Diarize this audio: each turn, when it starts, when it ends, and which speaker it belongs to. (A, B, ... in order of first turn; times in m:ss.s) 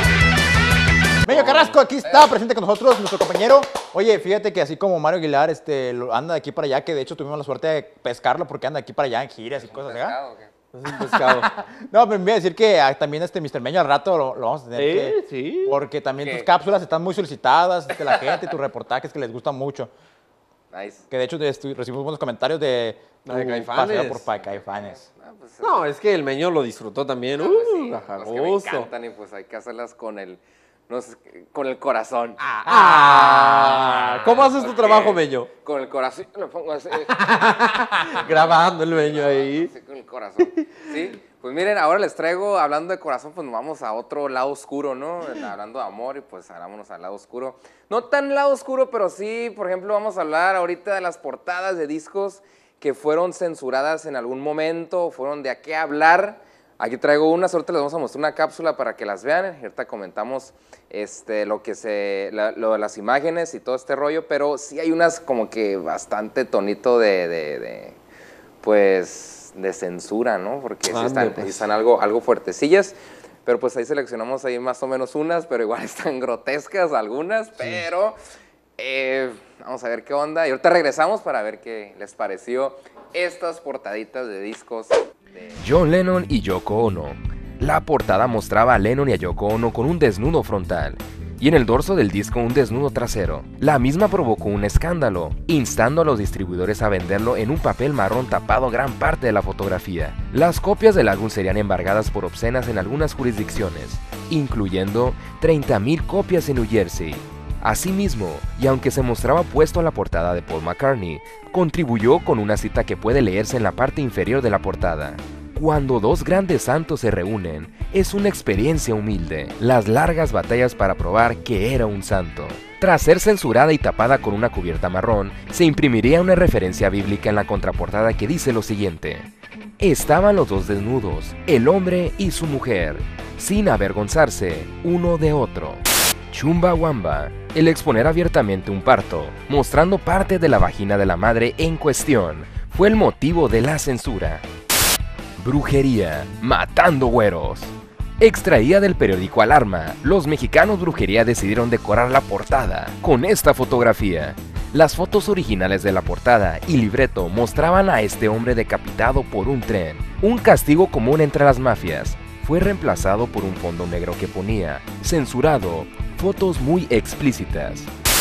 0:01.2-0:10.2 A
0:01.3-0:01.8 B
0:09.6-0:10.5 C
0:10.7-0:11.5 B
0:11.2-0:19.9 A
0:14.8-0:15.7 B
0:16.2-0:16.5 C
0:20.7-0:21.0 C
0:21.1-0:25.0 A
0:23.2-0:24.3 B
0:24.5-0:25.8 C
0:25.6-0:28.9 B
0:27.3-0:32.4 C
0:32.4-0:34.2 A
0:32.6-0:35.5 B
0:33.1-1:08.0 C
0:37.1-0:39.7 B
1:08.6-1:18.2 C
1:10.9-1:11.6 B
1:18.8-1:25.6 C
1:25.6-2:09.3 D
2:09.8-2:24.4 D
2:25.4-2:47.9 D